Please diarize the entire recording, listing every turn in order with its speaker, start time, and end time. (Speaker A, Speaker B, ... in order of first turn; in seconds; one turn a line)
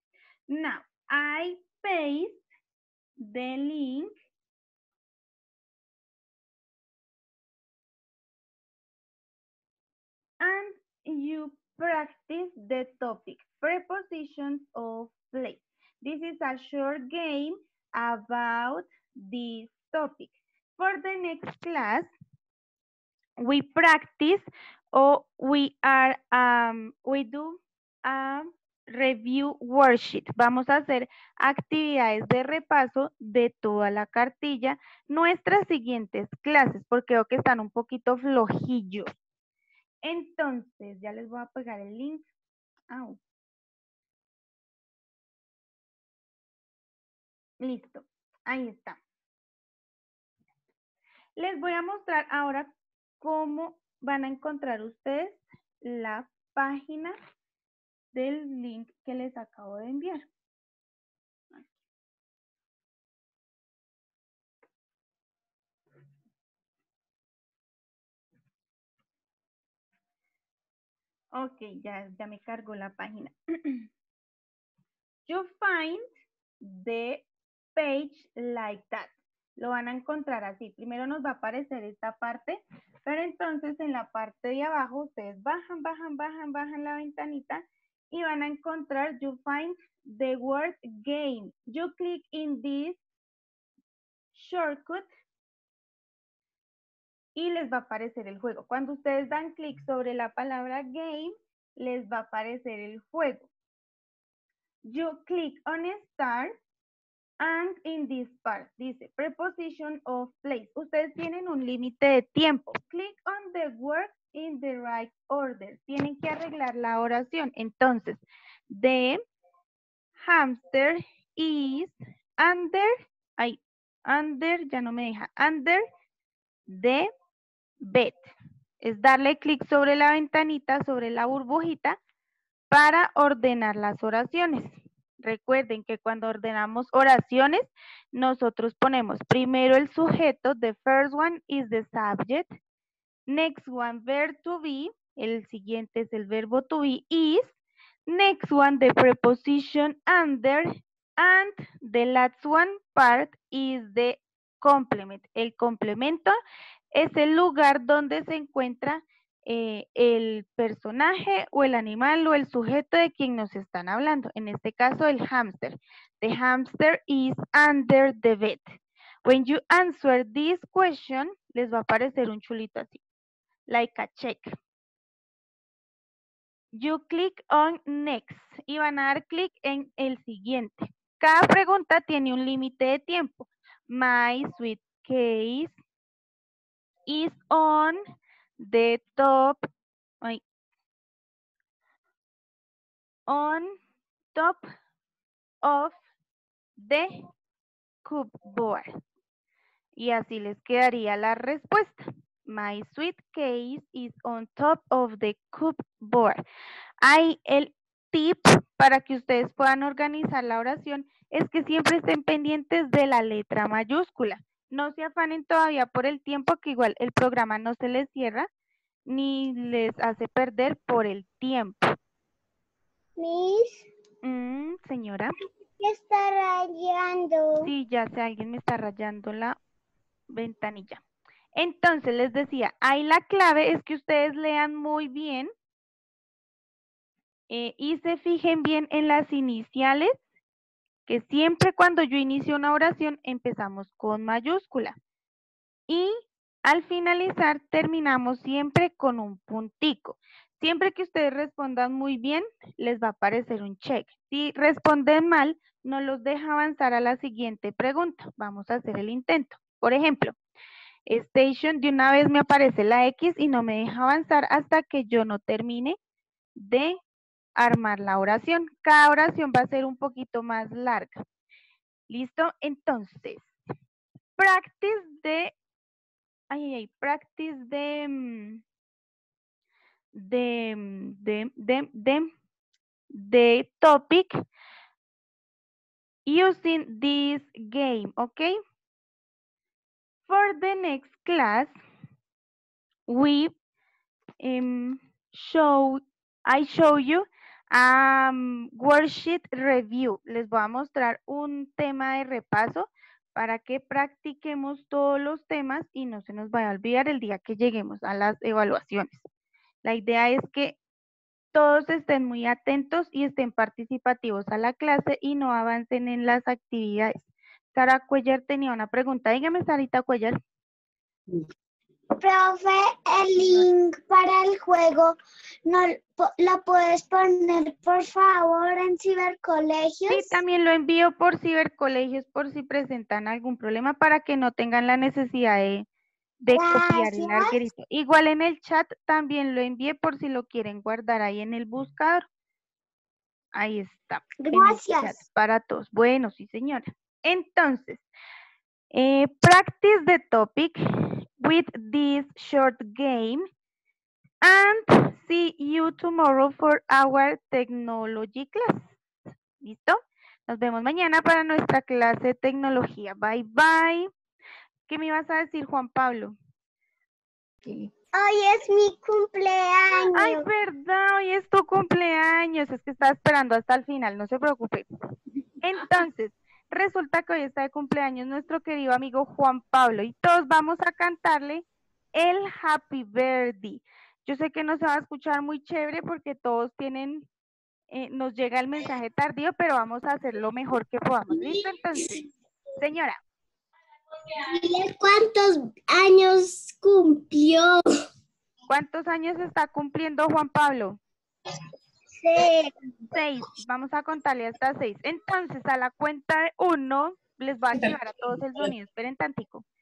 Speaker A: 0.5-2.4
Speaker A: 3.2-4.1
Speaker A: 10.4-22.1
Speaker A: 23.4-39.1
Speaker A: 40.0-42.3
Speaker A: 42.9-43.2
Speaker A: 47.6-49.0
Speaker A: 51.4-52.7
Speaker A: 53.2-57.1
Speaker A: 58.1-60.2
Speaker A: 71.3-73.8
Speaker A: 75.3-76.0
Speaker A: 76.6-93.0
Speaker A: 94.3-95.1
Speaker A: 97.3-103.5
Speaker A: 104.9-106.5
Speaker A: 107.4-119.2
Speaker A: 120.2-125.8
Speaker A: 126.7-127.1
Speaker A: 127.8-132.0
Speaker A: 132.7-142.5
Speaker A: 143.3-147.5
Speaker A: 148.1-156.4
Speaker A: 156.9-173.0
Speaker A: 173.7-174.5
Speaker A: 176.7-185.8
Speaker A: 187.1-188.0
Speaker A: 188.6-189.7
Speaker A: 193.3-193.7
Speaker A: 194.3-194.6
Speaker A: 195.6-195.9
Speaker A: 196.8-197.1
Speaker A: 198.0-198.9
Speaker A: 200.0-206.4
Speaker A: 207.0-218.5
Speaker A: 219.1-221.8
Speaker B: 223.2-223.8
Speaker A: 224.2-225.3
Speaker B: 225.8-227.7
Speaker A: 227.6-229.6
Speaker A: 230.3-231.0
Speaker A: 231.6-235.5
Speaker A: 237.5-240.2
Speaker A: 241.1-244.9
Speaker A: 245.9-260.4
Speaker A: 261.1-266.0
Speaker A: 266.6-267.0
Speaker A: 267.6-271.2
Speaker A: 272.1-273.5
Speaker A: 274.4-275.5
Speaker A: 276.5-278.6
Speaker A: 280.1-282.3
Speaker A: 283.1-284.3
Speaker A: 286.2-288.6
Speaker A: 290.2-291.7
Speaker A: 293.1-293.5
Speaker A: 294.4-309.2
Speaker A: 309.8-310.8
Speaker A: 311.5-320.4
Speaker B: 322.2-330.4
Speaker A: 330.1-335.8
Speaker A: 336.4-342.2
Speaker B: 336.5-337.6
Speaker A: 343.5-348.0
Speaker B: 344.4-345.2
Speaker A: 348.9-353.4
Speaker A: 354.4-359.0
Speaker A: 359.6-364.1
Speaker A: 364.9-366.3
Speaker B: 368.1-370.5
Speaker A: 370.1-374.9
Speaker A: 375.6-381.6
Speaker A: 382.1-387.2
Speaker A: 387.9-392.2
Speaker B: 391.3-391.6
Speaker A: 392.8-393.2
Speaker B: 394.4-397.8
Speaker A: 398.7-401.0
Speaker B: 402.2-402.7
Speaker A: 403.1-409.6